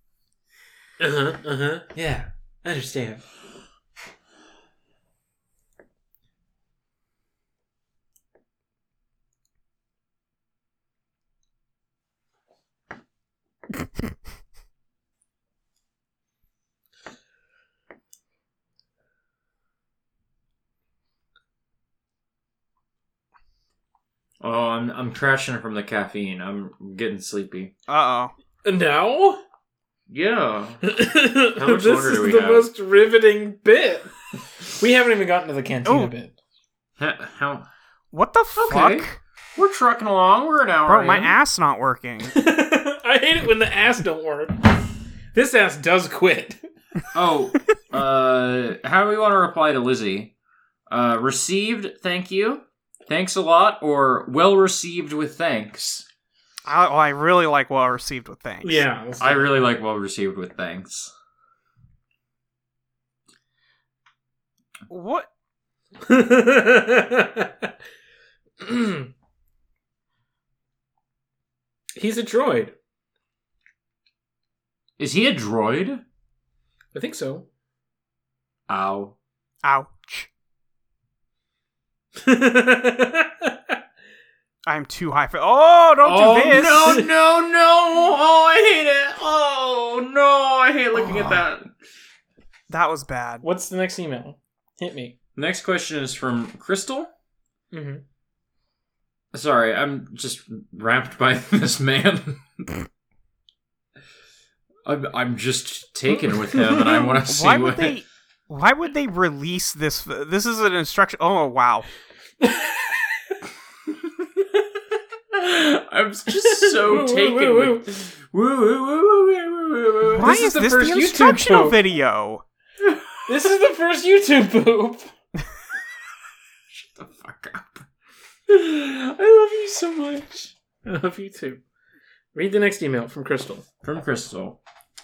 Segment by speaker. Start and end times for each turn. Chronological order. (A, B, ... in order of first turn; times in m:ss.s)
0:01.0-0:03.2 A
0:24.4-0:27.7 B
0:27.9-0:28.3 C
0:28.6-0:29.4 A
0:30.1-0:30.8 B
0:30.9-0:34.1 A
0:31.5-0:32.7 B
0:34.7-0:36.3 A
0:35.8-0:36.1 C
0:37.0-0:37.7 B
0:38.1-0:39.2 C
0:38.6-0:41.4 B
0:40.9-0:42.4 C
0:42.3-0:44.7 A
0:45.3-0:46.6 A
0:47.1-0:50.3 B
0:50.9-0:56.1 B
0:56.7-0:58.9 C
0:58.6-0:59.5 A
0:59.2-1:01.1 B
1:04.9-1:05.3 C
1:06.0-1:07.7 A
1:08.6-1:09.1 A
1:12.0-1:12.7 A
1:15.0-1:16.0 B
1:16.9-1:17.5 A
1:18.7-1:19.2 B
1:19.6-1:20.3 C
1:22.2-1:23.8 A
1:24.7-1:27.0 C
1:26.0-1:31.7 B
1:32.7-1:33.5 C
1:33.4-1:35.1 A
1:35.4-1:37.1 B
1:37.7-1:38.0 A
1:39.3-1:42.7 B
1:44.8-1:48.0 B
1:47.2-1:51.9 C
1:52.4-1:53.0 A
1:55.3-2:00.3 B
1:56.4-1:57.8 A
2:00.1-2:02.4 C
2:00.2-2:01.8 A
2:03.3-2:05.1 A
2:06.7-2:07.8 B
2:08.5-2:10.5 B
2:10.8-2:11.6 A
2:12.3-2:13.6 A
2:13.8-2:14.6 B